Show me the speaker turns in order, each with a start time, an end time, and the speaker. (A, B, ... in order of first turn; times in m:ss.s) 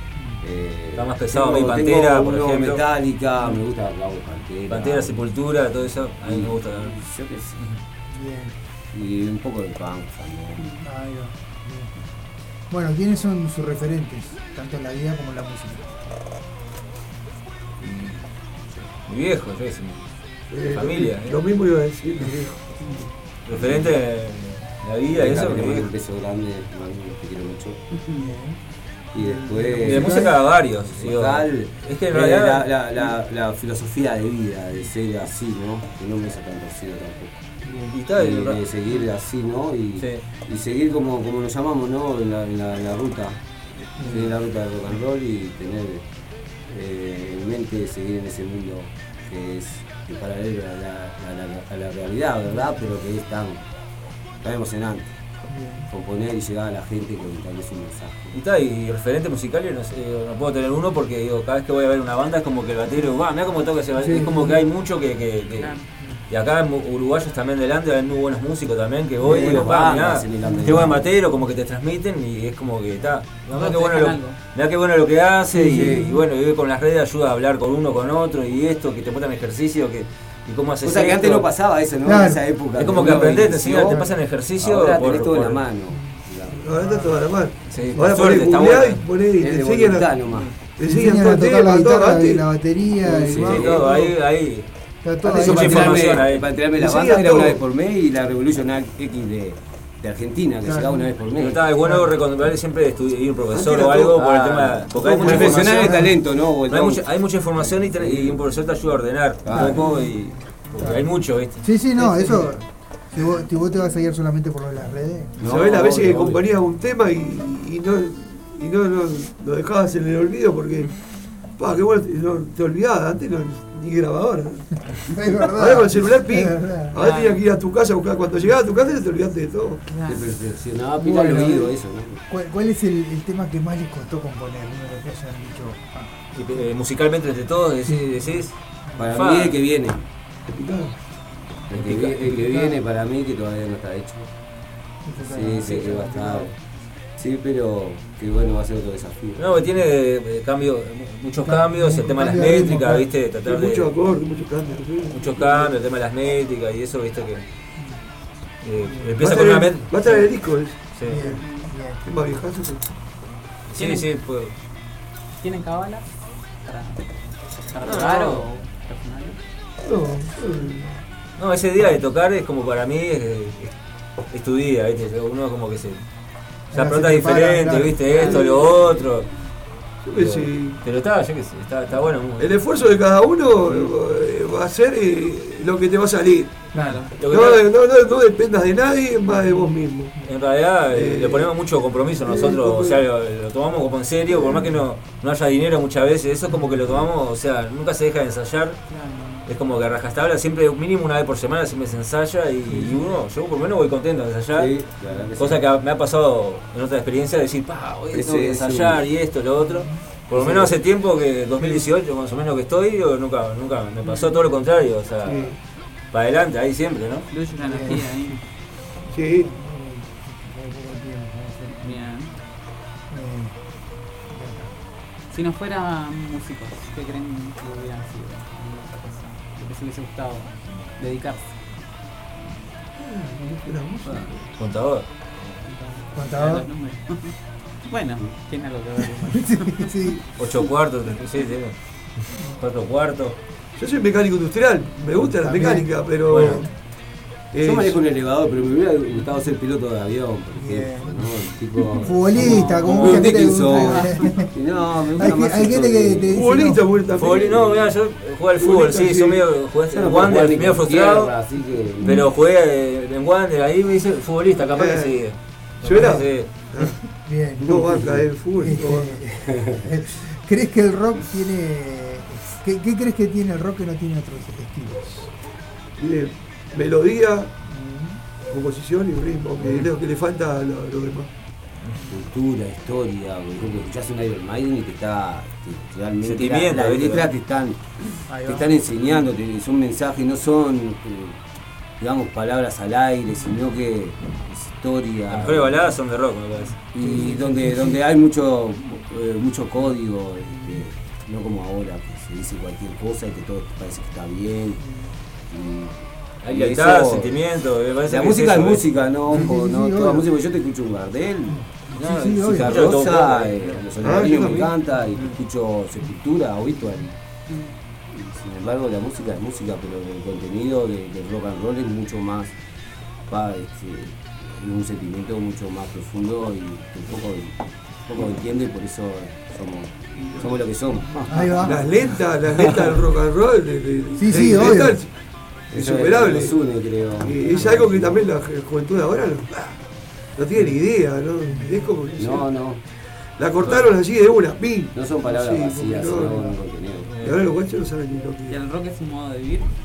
0:00.4-0:05.2 A
0:01.0-0:02.8 B
0:04.7-0:07.0 B
0:06.2-0:07.6 A
0:08.1-0:08.5 C
0:08.9-0:10.7 A
0:10.6-0:10.9 D
0:10.8-0:11.9 C
0:12.7-0:15.9 C
0:17.8-0:20.1 B
0:20.5-0:22.7 E
0:20.7-0:21.4 B
0:23.4-0:25.9 B
0:23.6-0:23.9 A
0:25.1-0:27.8 A
0:27.9-0:28.3 D
0:28.2-0:28.6 C
0:29.1-0:37.4 A
0:29.1-0:30.4 C
0:29.8-0:32.8 B
0:37.6-0:38.0 C
0:37.9-0:38.6 B
0:38.1-0:46.0 A
0:40.0-0:40.2 B
0:44.0-0:44.3 C
0:46.6-0:53.6 A
0:54.4-0:55.2 A
0:55.5-0:55.9 C
0:55.9-0:58.4 A
0:58.3-1:21.5 B
1:04.0-1:04.6 C
1:05.6-1:05.9 D
1:09.2-1:11.1 A
1:09.3-1:09.6 C
1:10.4-1:11.0 C
1:13.5-1:14.4 D
1:15.5-1:16.2 C
1:15.6-1:16.2 A
1:20.8-1:26.6 A
1:22.0-1:22.4 C
1:22.7-1:25.7 B
1:25.9-1:27.1 C
1:26.6-1:32.5 E
1:27.7-1:29.0 B
1:29.4-1:30.6 A
1:30.8-1:33.7 C
1:33.0-1:34.1 E
1:33.1-1:33.9 A
1:33.5-1:34.7 B
1:35.0-1:36.1 C
1:35.2-1:41.6 A
1:35.4-1:36.4 B
1:36.7-1:37.6 E
1:40.6-1:41.1 C
1:41.3-1:46.0 B
1:41.8-1:42.1 C
1:43.5-1:48.4 A
1:45.1-1:46.1 C
1:46.7-1:51.7 B
1:49.4-1:49.9 A
1:49.6-1:49.9 C
1:50.8-1:55.4 C
1:52.0-1:52.4 A
1:55.4-1:56.4 A
1:55.4-2:04.8 E
2:05.1-2:07.0 C
2:05.5-2:09.8 E
2:06.9-2:07.4 D
2:09.8-2:10.4 D
2:10.0-2:12.2 A
2:11.0-2:11.7 C
2:12.3-2:16.3 C
2:16.3-2:18.6 B
2:17.9-2:19.0 C
2:19.0-2:20.0 A
2:19.1-2:19.6 B
2:20.5-2:21.0 E
2:21.7-2:24.3 A
2:21.8-2:22.2 B
2:22.2-2:22.8 C
2:25.0-2:26.5 C
2:25.2-2:26.5 A
2:27.2-2:29.5 A
2:29.4-2:33.9 B
2:31.4-2:33.1 C
2:33.4-2:35.7 E
2:35.1-2:37.4 B
2:38.6-2:40.0 B
2:38.8-2:39.2 C
2:39.2-2:41.4 E
2:40.9-2:41.2 B
2:41.1-2:42.0 C
2:41.2-2:41.8 D
2:42.0-2:42.8 E
2:43.7-2:44.5 B
2:43.7-2:44.2 D
2:45.4-2:49.4 D
2:47.8-2:48.4 B
2:49.8-2:51.0 E
2:51.4-2:53.7 B
2:54.3-2:56.0 B
2:56.7-2:58.3 C
2:56.7-2:59.3 B
2:58.0-2:59.3 D
2:58.3-2:58.6 E
3:00.0-3:00.8 E
3:00.1-3:02.6 B
3:02.4-3:06.6 E
3:03.6-3:03.9 B
3:06.7-3:07.2 D
3:06.7-3:07.0 C
3:07.2-3:07.6 B
3:07.2-3:10.1 E
3:09.3-3:09.7 D
3:10.2-3:18.8 B
3:10.7-3:11.7 E
3:12.2-3:13.0 E
3:16.5-3:16.8 C
3:18.8-3:19.5 D
3:19.4-3:24.8 B
3:22.7-3:23.0 C
3:24.5-3:25.7 A
3:25.0-3:25.3 D
3:25.4-3:35.5 B
3:28.1-3:29.0 A
3:29.6-3:30.0 C
3:30.3-3:30.8 A
3:31.6-3:31.8 E
3:34.0-3:34.4 D
3:35.2-3:35.6 E
3:36.1-3:37.2 B
3:37.3-3:38.4 D
3:37.6-3:38.0 C
3:39.1-3:39.5 E
3:39.3-3:41.8 C
3:41.8-3:42.4 D
3:43.1-3:43.6 C
3:44.3-3:44.7 C
3:45.3-3:51.8 D
3:53.0-3:54.5 E
3:54.5-3:55.1 B
3:55.6-3:59.9 D
3:56.1-3:56.6 C
3:59.5-4:00.4 C
4:00.4-4:03.4 B
4:03.8-4:06.6 E
4:05.4-4:06.7 C
4:06.3-4:06.6 B
4:07.5-4:08.0 E
4:07.6-4:16.4 A
4:10.5-4:14.5 C
4:13.8-4:14.4 D
4:15.2-4:16.8 C
4:16.3-4:17.9 E
4:17.2-4:21.3 B
4:18.6-4:19.4 E
4:19.9-4:22.2 A
4:22.0-4:26.6 B
4:24.7-4:25.2 E
4:25.8-4:27.0 E
4:27.2-4:35.3 C
4:27.6-4:28.2 A
4:27.6-4:29.2 E
4:29.3-4:29.8 A
4:36.0-4:37.5 E
4:37.6-4:38.2 C
4:38.5-4:41.3 E
4:42.1-4:51.4 A
4:46.2-4:47.3 B
4:48.3-4:48.7 C
4:52.0-4:55.9 A
4:55.3-4:56.8 B
4:56.8-5:04.8 A
4:57.1-4:57.4 C
4:57.1-4:57.9 D
5:04.8-5:05.1 C
5:05.5-5:07.5 A
5:06.4-5:09.0 B
5:08.0-5:11.6 A
5:09.2-5:10.3 C
5:11.5-5:13.0 C
5:11.9-5:14.5 B
5:12.6-5:17.1 A
5:14.0-5:14.7 E
5:15.1-5:15.4 B
5:17.5-5:17.7 D
5:18.1-5:22.6 A
5:23.3-5:31.3 A
5:30.1-5:35.1 E
5:31.3-5:31.8 C
5:34.2-5:35.0 C
5:35.7-5:38.2 A
5:35.7-5:36.6 E
5:37.2-5:39.8 E
5:40.4-5:42.5 E
5:41.4-5:42.0 C
5:42.2-5:42.8 A
5:43.2-5:46.5 E
5:43.6-5:43.9 B
5:44.9-5:47.1 A
5:47.0-5:47.4 B
5:47.2-5:48.6 E
5:48.5-5:49.7 D